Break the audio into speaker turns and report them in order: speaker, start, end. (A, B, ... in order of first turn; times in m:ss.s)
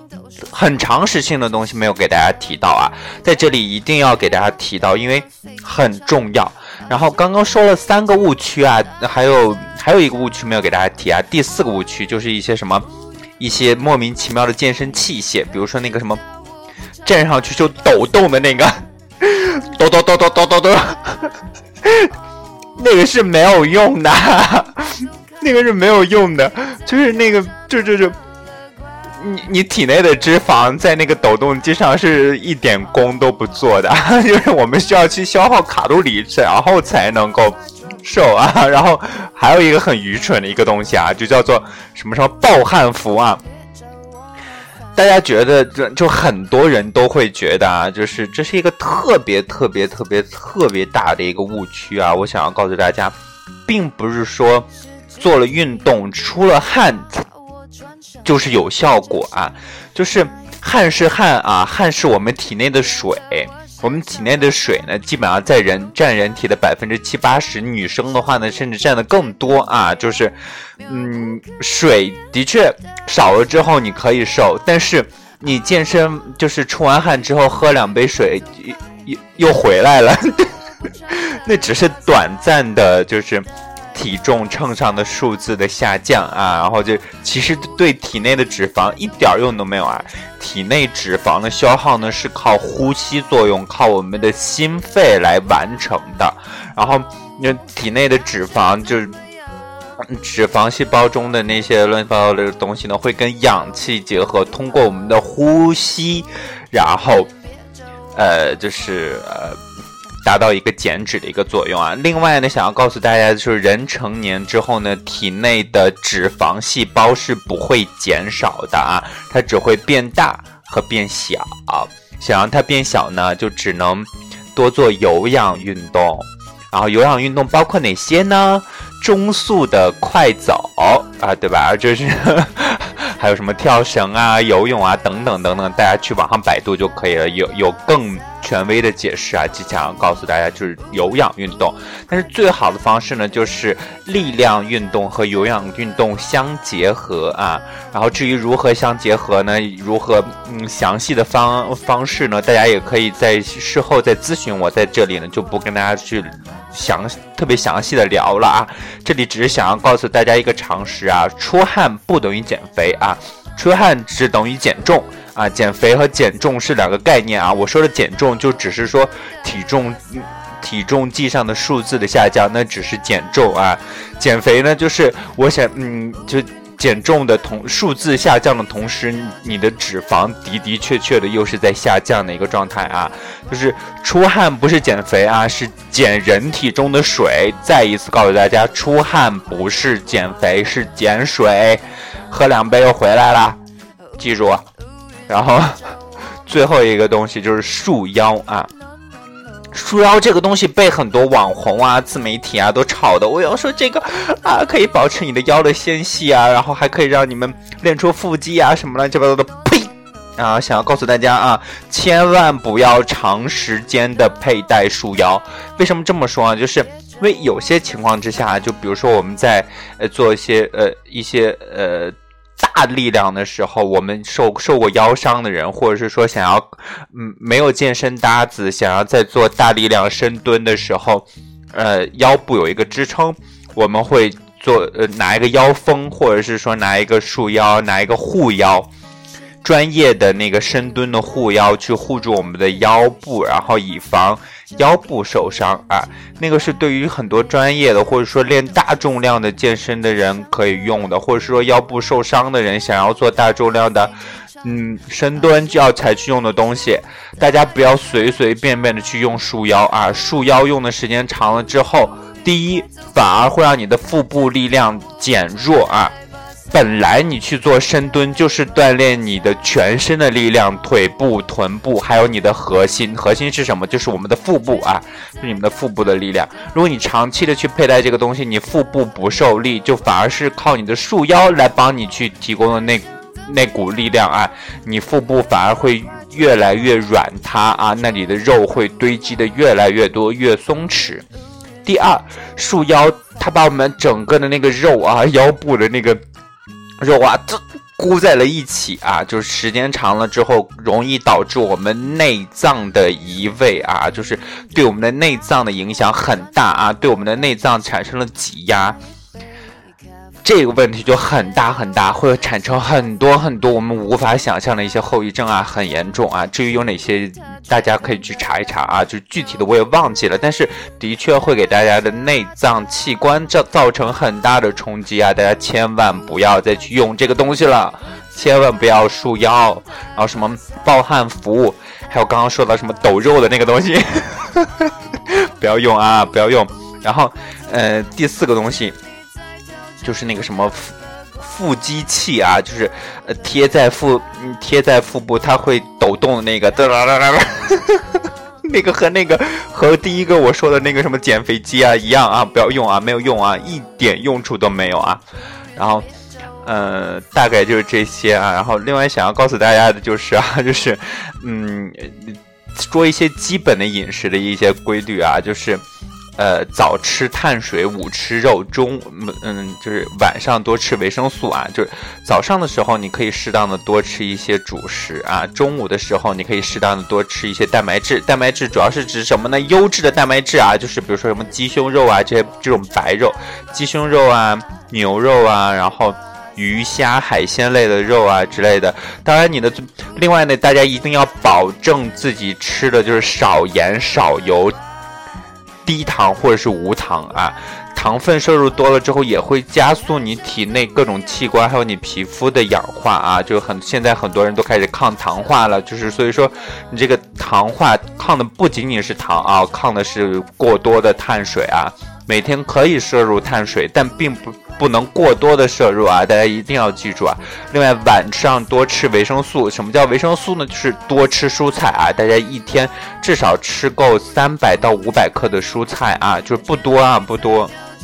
0:00.5-0:12.8 A
0:13.4-0:16.2 A
0:17.0-0:22.1 A
0:22.8-0:28.2 A
0:29.2-0:43.4 A
0:45.0-0:53.1 A
0:53.6-0:57.2 A
0:58.2-1:39.1 A
1:40.1-1:47.3 A
1:48.1-1:49.6 A
1:50.2-3:13.6 A
3:14.2-3:14.6 A
3:15.3-3:18.7 A
3:19.7-3:58.9 A
3:59.6-4:26.1 A
4:26.7-4:51.2 A
4:51.8-4:56.2 A
4:57.0-5:09.0 A
5:10.4-5:39.0 A
5:40.0-5:55.2 A
5:55.8-5:56.0 A
5:56.6-6:05.8 A
6:06.4-6:34.8 A
6:35.8-7:07.7 A